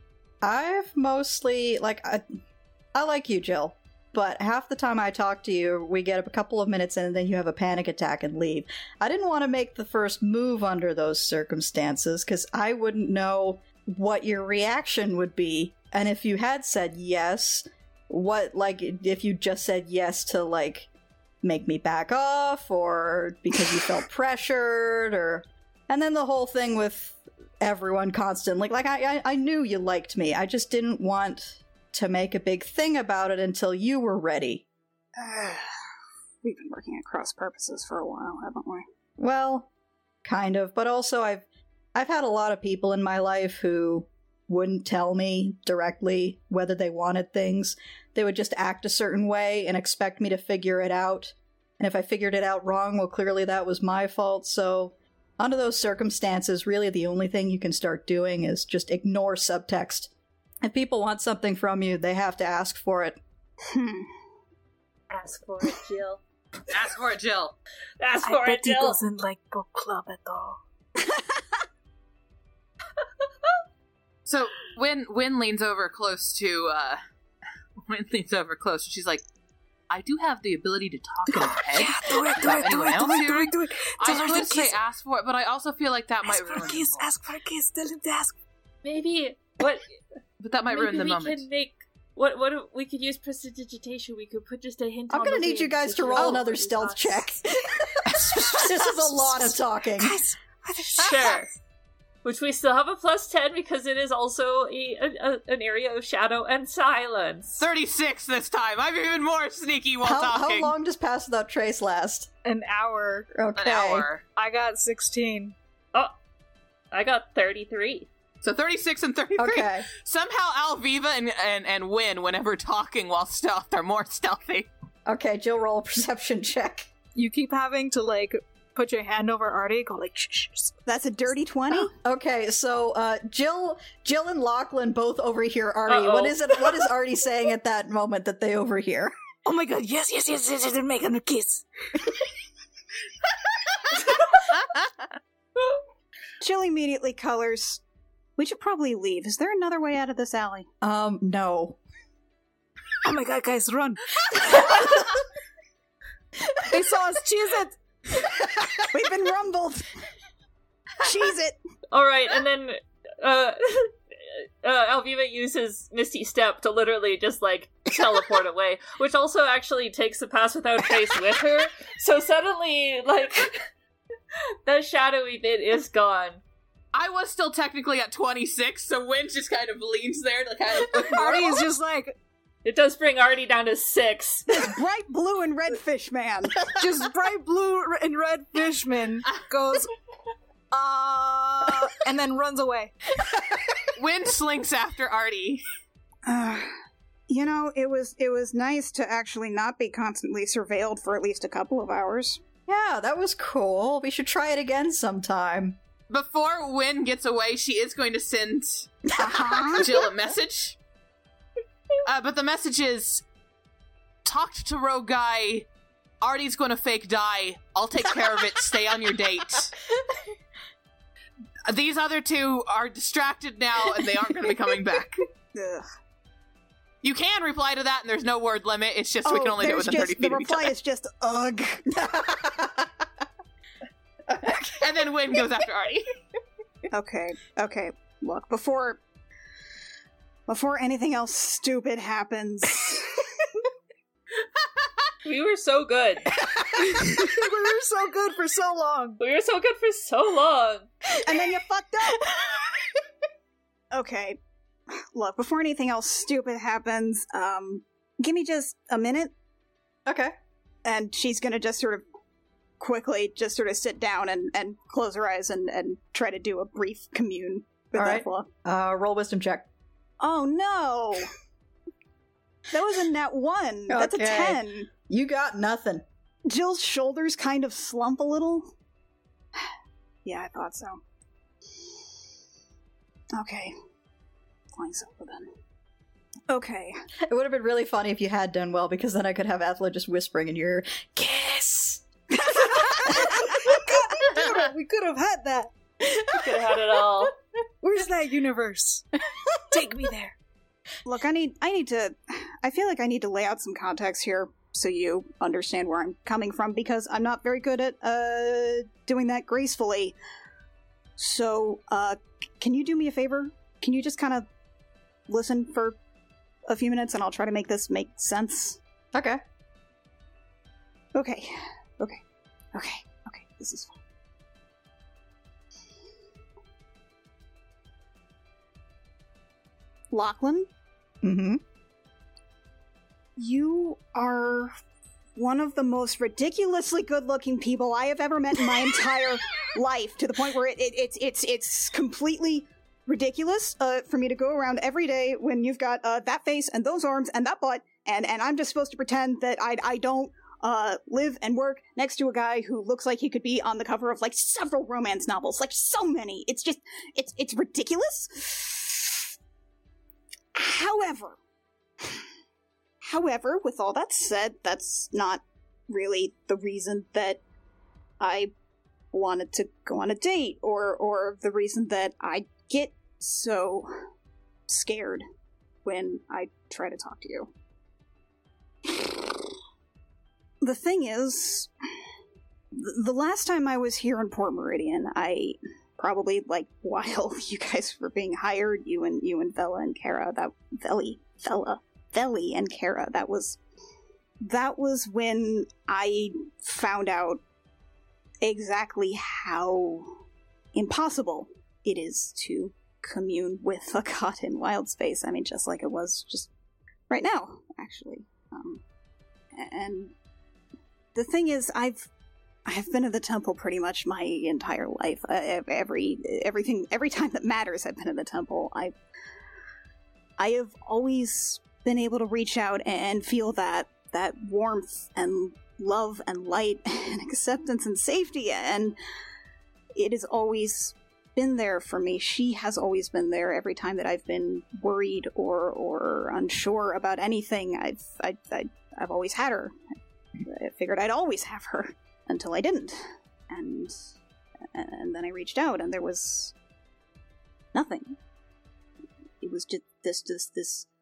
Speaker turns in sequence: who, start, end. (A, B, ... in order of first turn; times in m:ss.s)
0:00.4-0:02.2 A
0:02.9-0:20.9 A
0:21.4-0:34.6 A
0:35.2-0:35.7 B
0:36.4-0:38.8 B
0:39.2-0:39.7 A
0:40.2-1:00.1 A
1:00.6-1:03.2 A
1:03.7-1:04.1 B
1:05.1-1:06.2 C
1:06.7-1:07.5 D
1:08.0-1:09.0 C
1:08.2-1:10.6 E
1:14.2-1:17.0 D
1:17.8-1:19.2 D
1:19.9-1:27.1 D
1:21.3-1:24.8 E
1:26.2-1:28.3 E
1:28.8-1:29.9 C
1:30.4-1:31.4 D
1:30.7-1:37.3 C
1:35.1-1:40.2 A
1:38.1-1:41.4 E
1:40.9-1:41.5 C
1:42.2-1:47.6 C
1:47.6-1:50.7 D
1:50.0-1:52.3 A
1:52.4-1:53.3 E
1:53.3-1:54.1 A
1:53.6-1:54.2 D
1:54.3-1:55.5 E
1:56.9-1:58.1 C
1:58.4-2:04.7 D
1:59.4-1:59.9 A
2:05.1-2:06.9 A
2:07.1-2:10.8 E
2:10.8-2:11.9 B
2:11.9-2:19.1 A
2:15.9-2:16.4 C
2:19.4-2:22.2 E
2:23.9-2:24.4 E
2:26.4-2:27.8 B
2:28.4-2:30.7 B
2:30.8-2:31.8 A
2:33.0-2:35.2 E
2:34.7-2:35.0 A
2:36.7-2:38.3 E
2:38.9-2:39.9 B
2:41.0-2:41.6 B
2:41.9-2:53.6 C
2:54.6-2:56.4 C
2:56.9-3:01.6 D
3:00.9-3:02.2 E
3:02.6-3:04.5 C
3:04.5-3:06.7 B
3:06.8-3:09.9 E
3:10.7-3:12.9 E
3:13.2-3:13.7 A
3:13.9-3:15.6 D
3:16.2-3:16.7 B
3:17.3-3:22.4 B
3:22.7-3:25.8 A
3:26.1-3:29.0 D
3:29.2-3:29.9 B
3:29.8-3:30.8 D
3:32.0-3:33.2 D
3:34.2-3:35.7 D
3:36.2-3:39.7 D
3:41.7-3:45.2 D
3:45.5-3:45.8 B
3:47.0-3:50.7 D
3:49.2-3:51.8 B
3:51.9-3:53.0 A
3:54.4-3:54.8 A
3:54.7-3:56.0 D
3:56.9-3:59.0 B
4:00.5-4:03.3 B
4:05.2-4:06.3 C
4:06.4-4:07.2 A
4:06.8-4:09.2 E
4:09.2-4:10.9 C
4:11.2-4:12.3 B
4:13.9-4:14.4 B
4:14.9-4:19.3 B
4:20.0-4:20.3 A
4:20.8-4:22.0 B
4:22.8-4:28.5 B
4:28.0-4:29.7 A
4:30.2-4:31.3 B
4:32.7-4:34.9 B
4:33.9-4:36.0 A
4:36.4-4:38.7 B
4:40.2-4:41.0 B
4:43.3-4:43.7 B
4:44.8-4:45.5 B
4:46.5-4:47.0 B
4:47.3-4:51.3 A
4:51.2-4:56.3 E
4:53.1-4:53.5 A
4:56.3-4:57.3 C
4:57.8-4:59.0 E
4:59.7-5:00.4 E
5:01.0-5:10.1 B
5:11.2-5:14.4 B
5:15.3-5:16.0 B
5:16.7-5:18.8 B
5:19.1-5:19.4 A
5:21.1-5:22.2 B
5:22.7-5:24.0 B
5:30.1-5:30.7 B
5:31.2-5:31.6 A
5:33.4-5:34.7 B
5:35.4-5:59.3 B
6:00.5-6:01.4 B
6:03.0-6:07.4 B
6:08.2-6:08.5 B
6:09.1-6:13.9 B
6:14.7-6:15.2 B
6:15.8-6:17.5 B
6:18.8-6:19.4 B
6:20.6-6:21.7 B
6:22.7-6:33.6 B
6:34.4-6:37.4 B
6:38.4-6:40.2 B
6:40.7-6:46.5 B
6:47.1-6:48.8 B
6:49.5-6:50.1 B
6:51.1-6:52.1 B
6:52.6-6:58.9 B
7:00.4-7:08.9 B
7:10.0-7:19.7 B
7:20.4-7:24.0 B
7:24.7-7:26.5 B
7:27.7-7:28.2 B
7:29.4-7:30.9 B